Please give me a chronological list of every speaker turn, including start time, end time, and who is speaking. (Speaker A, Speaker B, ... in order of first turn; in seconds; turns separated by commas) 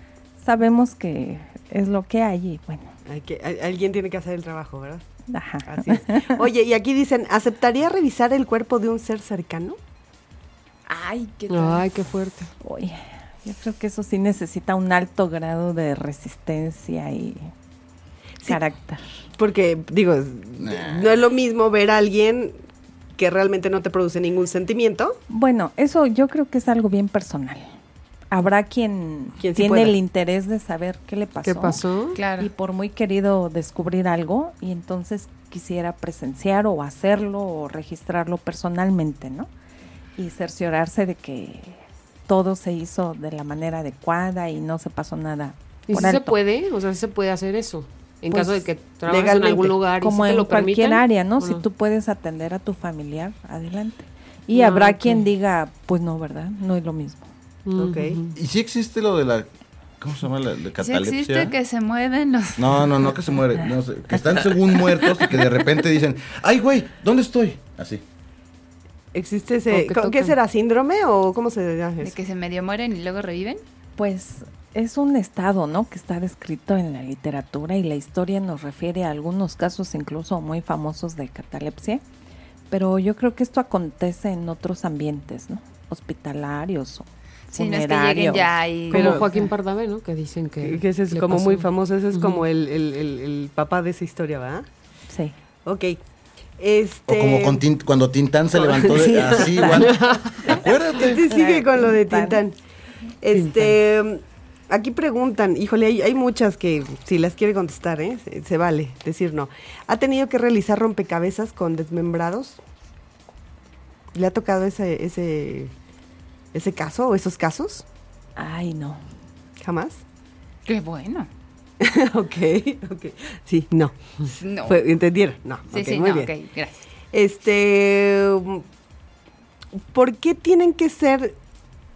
Speaker A: 0.4-2.9, Speaker B: 3.1-5.0, Speaker A: 5.3-6.4, Speaker B: 5.7-9.8, Speaker C: 10.9-11.9, Speaker D: 11.5-12.5, Speaker A: 12.6-17.5, Speaker A: 18.4-19.1, Speaker B: 19.4-22.6, Speaker E: 20.6-21.1, Speaker B: 23.2-25.2, Speaker A: 25.3-27.7, Speaker A: 28.3-31.8, Speaker B: 29.4-29.9, Speaker D: 31.4-32.2, Speaker C: 32.1-32.5, Speaker A: 32.4-39.5, Speaker A: 40.2-46.4, Speaker D: 45.9-51.6, Speaker A: 48.3-48.6, Speaker B: 49.0-49.8, Speaker A: 50.0-57.3, Speaker D: 54.5-55.2, Speaker D: 57.6-58.4, Speaker B: 57.8-58.2, Speaker E: 58.3-59.5, Speaker E: 60.0-61.5, Speaker C: 60.8-62.9, Speaker E: 62.6-68.0, Speaker B: 69.1-72.1, Speaker D: 69.7-70.3, Speaker C: 72.0-73.6, Speaker A: 74.0-82.0, Speaker A: 82.7-88.6, Speaker C: 87.5-89.2, Speaker B: 88.9-89.3, Speaker D: 88.9-92.4, Speaker B: 90.6-94.7, Speaker B: 95.6-96.0, Speaker B: 96.6-97.6, Speaker E: 97.1-101.2, Speaker B: 98.5-99.9, Speaker D: 99.7-100.3, Speaker B: 100.5-102.5, Speaker A: 101.2-102.4, Speaker B: 103.2-112.6, Speaker D: 103.3-103.7, Speaker B: 114.1-115.7, Speaker B: 116.5-117.8, Speaker A: 118.4-119.0, Speaker B: 119.6-120.0, Speaker C: 120.7-121.3, Speaker B: 121.8-126.3, Speaker C: 124.3-124.8, Speaker C: 125.7-126.8, Speaker B: 127.1-128.6, Speaker B: 129.8-131.3